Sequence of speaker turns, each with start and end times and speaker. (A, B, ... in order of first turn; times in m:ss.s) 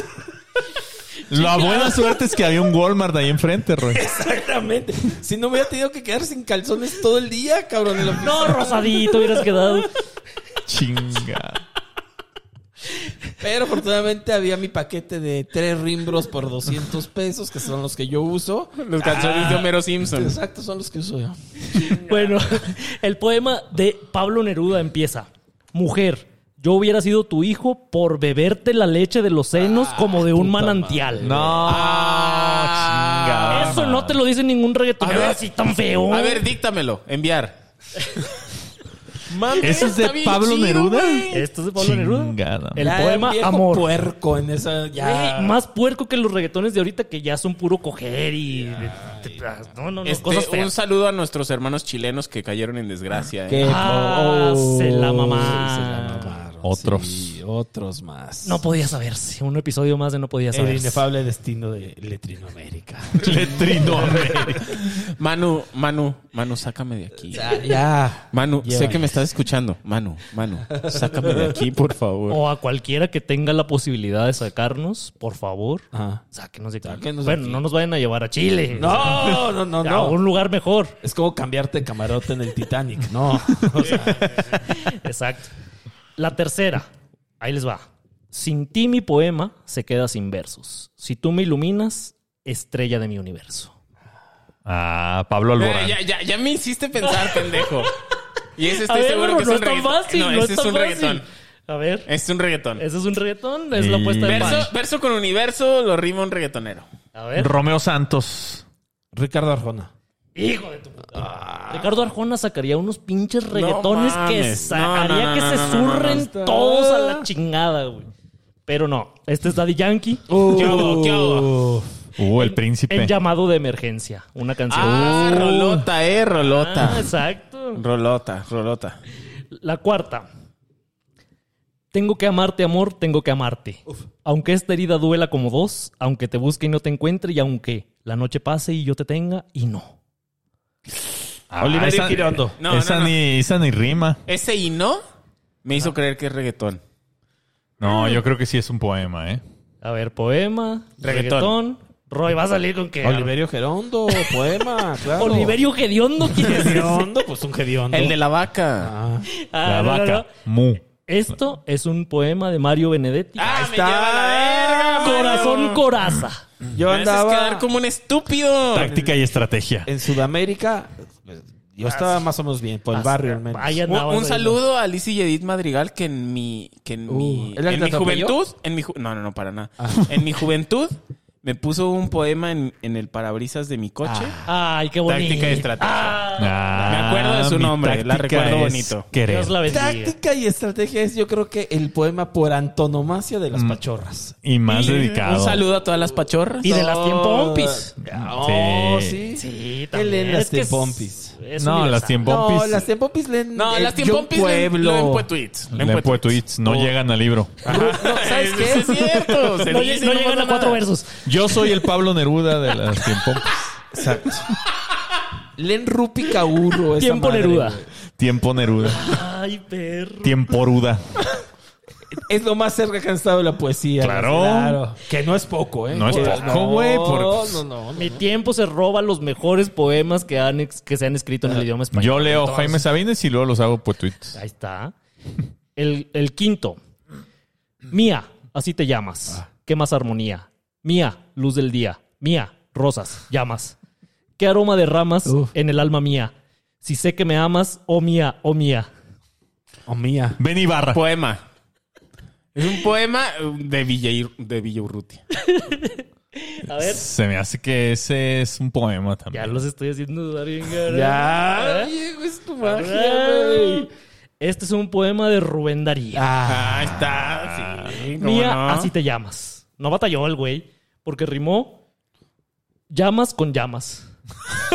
0:01.3-0:04.0 A
0:01.3-0:02.0 B
0:03.9-0:09.4 C
0:08.2-0:09.9 B
0:10.7-0:11.6 A
0:13.4-0:22.1 C
0:18.8-0:20.4 D
0:21.8-0:31.6 B
0:29.6-0:31.7 C
0:31.2-0:34.2 A
0:31.6-0:33.8 D
0:33.5-0:36.4 B
0:35.0-0:35.4 D
0:36.1-0:37.6 D
0:39.3-0:41.5 D
0:39.6-0:43.0 A
0:41.3-0:43.9 B
0:42.8-0:45.6 C
0:45.0-0:50.7 B
0:48.9-0:49.4 C
0:50.0-0:53.8 D
0:53.5-0:58.6 C
0:53.6-0:56.4 B
0:56.6-0:57.4 A
0:58.4-1:01.0 B
1:00.5-1:04.6 C
1:03.2-1:04.8 A
1:04.8-1:07.7 D
1:07.3-1:09.2 C
1:08.3-1:12.4 D
1:10.7-1:11.6 C
1:12.3-1:21.0 B
1:15.9-1:16.2 C
1:16.8-1:17.6 C
1:18.8-1:20.2 C
1:21.0-1:24.6 C
1:23.9-1:24.1 D
1:24.7-1:25.5 B
1:26.2-1:26.9 B
1:27.4-1:33.8 B
1:34.7-1:36.0 A
1:35.6-1:37.9 D
1:37.1-1:37.3 B
1:38.6-1:41.2 D
1:38.8-1:42.1 B
1:42.1-1:42.8 D
1:42.8-1:44.7 B
1:43.7-1:44.7 A
1:44.3-1:46.9 D
1:47.1-1:47.5 B
1:47.4-1:48.6 A
1:49.1-1:49.9 C
1:50.4-1:58.1 B
1:51.1-1:51.9 C
1:53.5-1:56.2 D
1:56.1-1:57.3 C
1:58.7-2:00.3 B
2:00.3-2:01.9 C
2:00.4-2:01.6 D
2:02.2-2:03.1 A
2:02.4-2:05.8 B
2:04.7-2:07.1 D
2:04.8-2:05.6 C
2:06.5-2:07.8 B
2:07.8-2:09.0 D
2:09.5-2:10.3 B
2:11.9-2:20.0 B
2:21.5-2:24.2 A
2:21.6-2:22.6 C
2:22.6-2:23.2 D
2:24.3-2:25.0 D
2:25.6-2:26.8 D
2:27.8-2:29.4 A
2:27.8-2:28.2 B
2:29.8-2:33.3 B
2:31.0-2:31.6 D
2:33.0-2:35.6 C
2:35.2-2:37.1 B
2:36.3-2:38.2 C
2:37.9-2:38.9 D
2:38.8-2:39.3 C
2:39.4-2:40.3 B
2:39.6-2:40.8 A
2:40.9-2:43.6 B
2:43.4-2:45.5 C
2:43.4-2:45.8 D
2:45.0-2:46.4 B
2:46.7-2:47.7 C
2:46.9-2:49.0 D
2:48.7-2:49.9 A
2:48.8-2:49.2 C
2:49.9-2:53.8 C
2:51.8-2:52.2 B
2:52.9-2:54.6 B
2:53.9-3:04.4 D
2:57.1-2:58.4 C
3:04.0-3:04.4 C
3:04.5-3:07.1 B
3:05.1-3:06.2 D
3:06.4-3:09.6 A
3:06.8-3:09.1 D
3:09.2-3:10.2 B
3:09.7-3:15.0 C
3:13.5-3:13.8 A
3:14.4-3:15.6 A
3:14.7-3:16.8 D
3:16.6-3:17.9 B
3:16.6-3:21.4 C
3:18.1-3:19.2 A
3:19.4-3:22.2 B
3:21.6-3:22.9 A
3:22.2-3:25.3 C
3:23.5-3:26.4 D
3:25.7-3:27.7 A
3:26.6-3:27.0 C
3:27.6-3:29.2 C
3:27.7-3:30.8 D
3:29.7-3:31.2 B
3:31.2-3:33.8 A
3:33.9-3:34.5 C
3:35.6-3:37.9 C
3:37.0-3:37.8 B
3:38.2-3:39.1 A
3:38.9-3:40.4 B
3:40.2-3:41.0 A
3:42.2-3:48.2 C
3:44.0-3:44.8 A
3:45.9-3:47.6 A
3:46.1-3:46.5 B
3:48.0-3:52.8 B
3:51.9-3:54.4 A
3:54.3-3:54.9 B
3:55.8-3:56.8 B
3:57.9-4:03.8 B
4:04.4-4:08.9 B
4:05.3-4:05.5 C
4:09.9-4:10.4 C
4:10.4-4:11.0 A
4:10.9-4:11.4 D
4:12.6-4:15.2 D
4:15.4-4:17.0 B
4:16.8-4:19.6 A
4:19.3-4:21.9 B
4:20.9-4:23.9 C
4:22.6-4:23.9 B
4:24.4-4:26.2 B
4:26.2-4:27.2 C
4:26.5-4:28.9 D
4:28.2-4:31.8 B
4:32.9-4:34.1 B